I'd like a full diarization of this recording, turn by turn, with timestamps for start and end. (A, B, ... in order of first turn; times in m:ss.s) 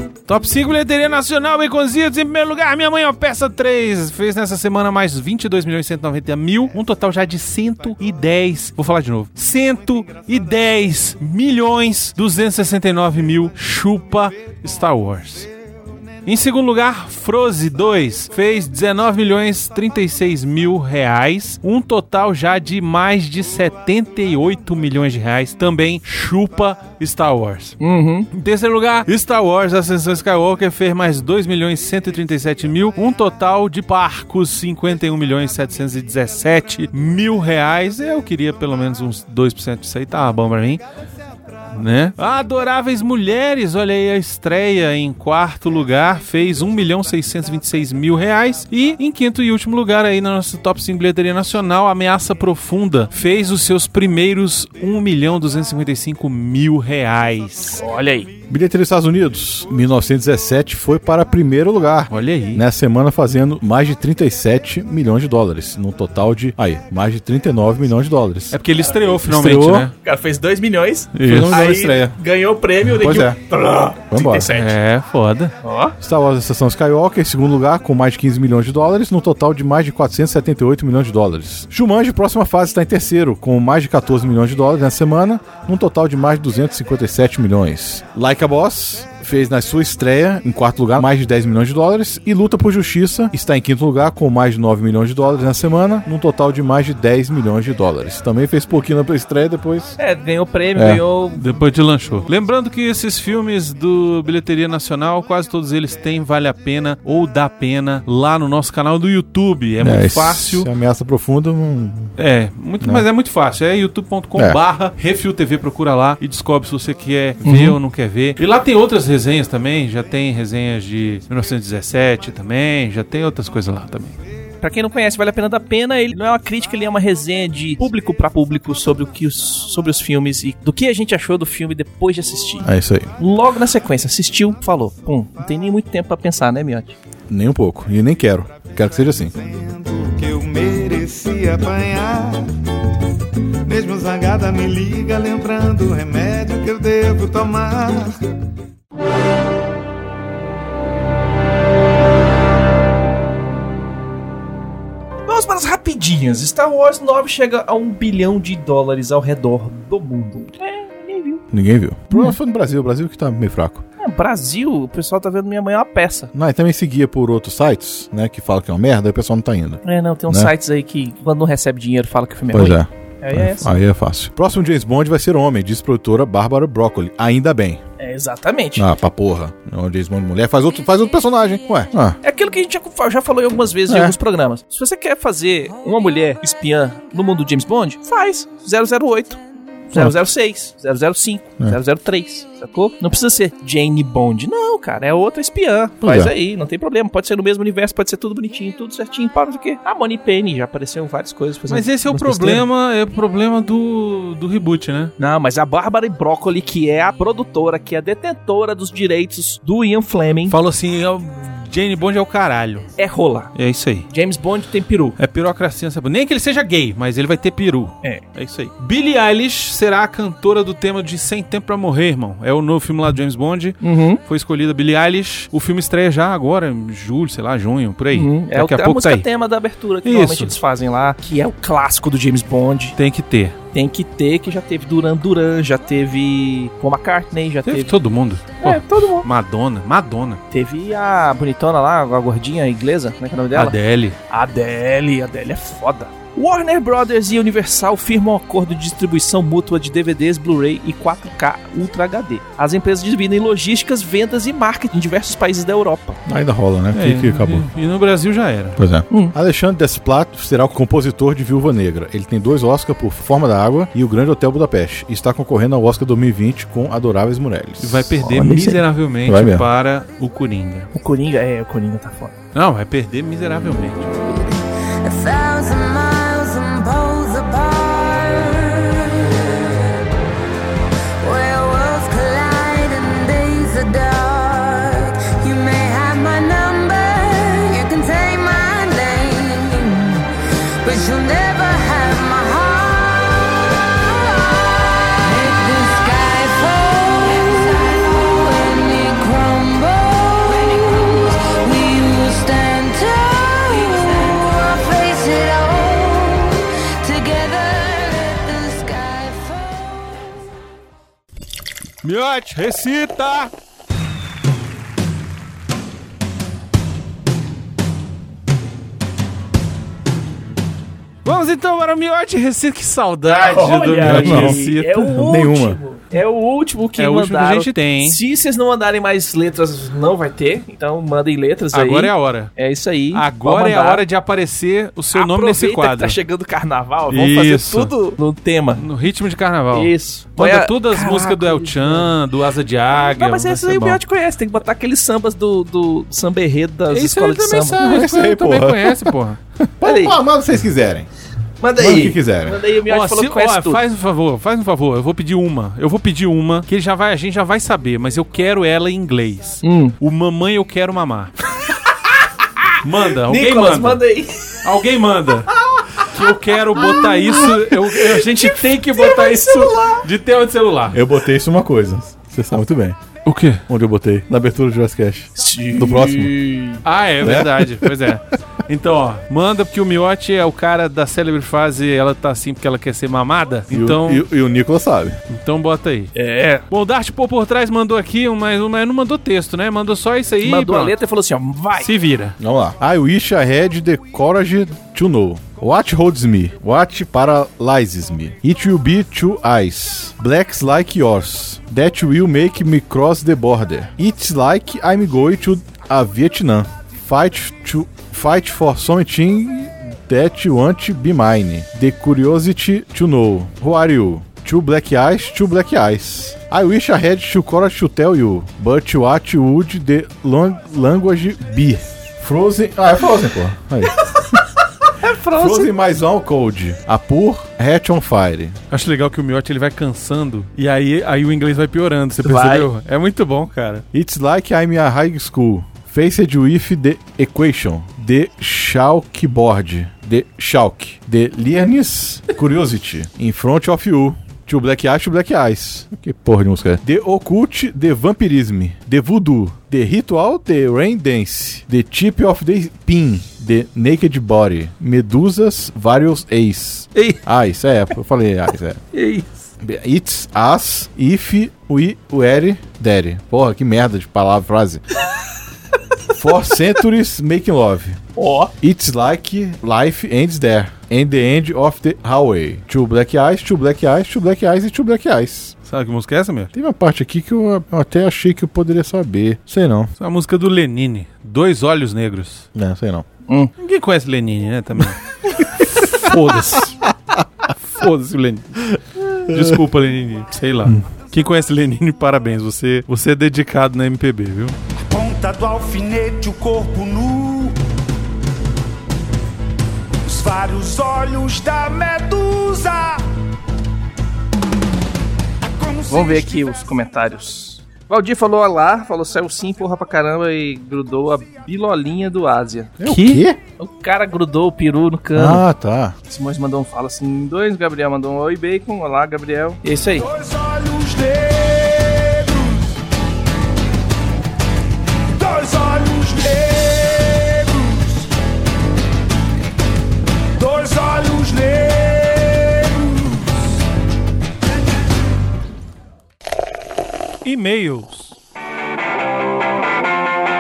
0:00.3-0:15.5 A
0:16.2-0:27.8 A
0:27.8-0:28.3 B
0:28.3-0:40.8 A
0:41.7-0:57.8 A
0:57.8-0:58.3 B
0:58.5-1:08.6 C
1:02.1-1:02.6 A
1:08.5-1:09.9 A
1:08.9-1:09.2 B
1:09.2-1:09.9 C
1:10.0-1:14.8 B
1:11.2-1:11.5 A
1:11.2-1:12.2 C
1:12.9-1:13.4 C
1:14.1-1:14.5 C
1:14.5-1:15.6 A
1:15.6-1:16.0 B
1:16.0-1:40.0 C
1:40.0-1:41.4 B
1:40.8-1:41.0 C
1:41.4-1:50.7 A
1:49.8-1:52.1 C
1:52.2-2:04.2 A
1:52.8-1:53.1 C
1:57.4-1:57.8 C
2:04.6-2:17.0 B
2:12.6-2:13.1 C
2:17.3-2:19.3 C
2:19.3-2:22.5 D
2:23.7-2:28.2 D
2:35.3-2:41.4 B
2:41.5-2:43.8 C
2:44.0-2:46.3 B
2:46.3-2:50.5 C
2:49.8-2:53.8 B
2:52.5-2:57.8 C
2:58.0-2:58.9 B
2:58.8-3:02.2 C
3:02.2-3:22.7 B
3:03.9-3:04.2 C
3:16.0-3:16.3 C
3:21.7-3:25.1 A
3:25.2-3:30.6 B
3:30.5-3:32.9 A
3:33.0-3:33.5 B
3:33.6-3:34.1 A
3:34.1-3:35.2 B
3:35.2-3:49.3 A
3:43.8-3:44.2 B
3:48.2-3:53.0 B
3:50.0-3:50.5 A
3:53.0-3:53.6 A
3:53.7-3:58.0 B
3:57.6-4:00.4 A
3:58.6-3:59.3 B
4:00.5-4:16.2 B
4:03.5-4:04.2 A
4:16.3-4:17.7 C
4:16.9-4:18.8 A
4:18.8-4:28.2 C
4:27.8-4:30.9 A
4:28.2-4:28.8 B
4:29.2-4:29.7 C
4:30.9-4:32.4 B
4:32.5-4:34.1 A
4:34.2-4:40.0 E
4:41.2-5:10.3 E
5:12.0-5:13.5 A
5:21.2-5:25.4 A
5:23.3-5:34.0 B
5:23.9-5:24.6 C
5:25.2-5:25.8 C
5:27.0-5:28.2 A
5:31.7-5:32.5 A
5:33.1-5:36.2 A
5:35.1-5:38.9 B
5:37.1-5:38.0 A
5:38.8-5:44.0 A
5:39.7-5:42.1 B
5:42.9-5:47.8 B
5:46.9-5:49.4 A
5:47.8-5:51.1 C
5:49.8-5:50.2 B
5:51.6-5:53.8 B
5:51.8-5:52.6 C
5:52.9-6:01.3 A
5:59.6-6:00.0 B
6:02.8-6:04.0 A
6:03.2-6:04.6 B
6:04.6-6:11.0 A
6:06.7-6:10.1 B
6:10.9-6:13.0 C
6:13.2-6:13.6 A
6:13.7-6:16.4 C
6:15.4-6:16.8 B
6:16.8-6:24.2 A
6:17.2-6:18.0 C
6:23.7-6:25.2 C
6:25.3-6:26.1 A
6:26.2-6:26.7 B
6:26.7-6:30.9 A
6:30.4-6:31.9 B
6:31.8-6:32.4 A
6:32.4-7:04.4 C
7:04.1-7:05.8 B
7:05.3-7:08.6 C
7:08.7-7:13.8 A
7:12.2-7:12.7 B
7:13.9-7:38.8 C
7:39.0-7:39.2 A
7:39.6-7:44.8 C
7:46.1-7:48.0 C
7:48.2-7:48.5 B
7:48.6-7:55.6 C
7:55.7-7:56.5 A
7:56.5-7:59.9 C
8:00.0-8:02.5 A
8:02.6-8:03.0 C
8:03.6-8:06.9 A
8:07.6-8:14.6 A
8:09.3-8:09.6 C
8:14.9-8:17.6 F
8:20.0-8:23.0 F
8:25.6-8:26.7 F
8:25.9-8:35.4 B
8:32.8-8:33.4 C
8:35.2-8:36.0 C
8:36.1-8:40.1 B
8:40.0-8:42.8 F
8:45.2-8:47.9 F
8:50.4-8:53.4 F
8:57.2-8:58.2 A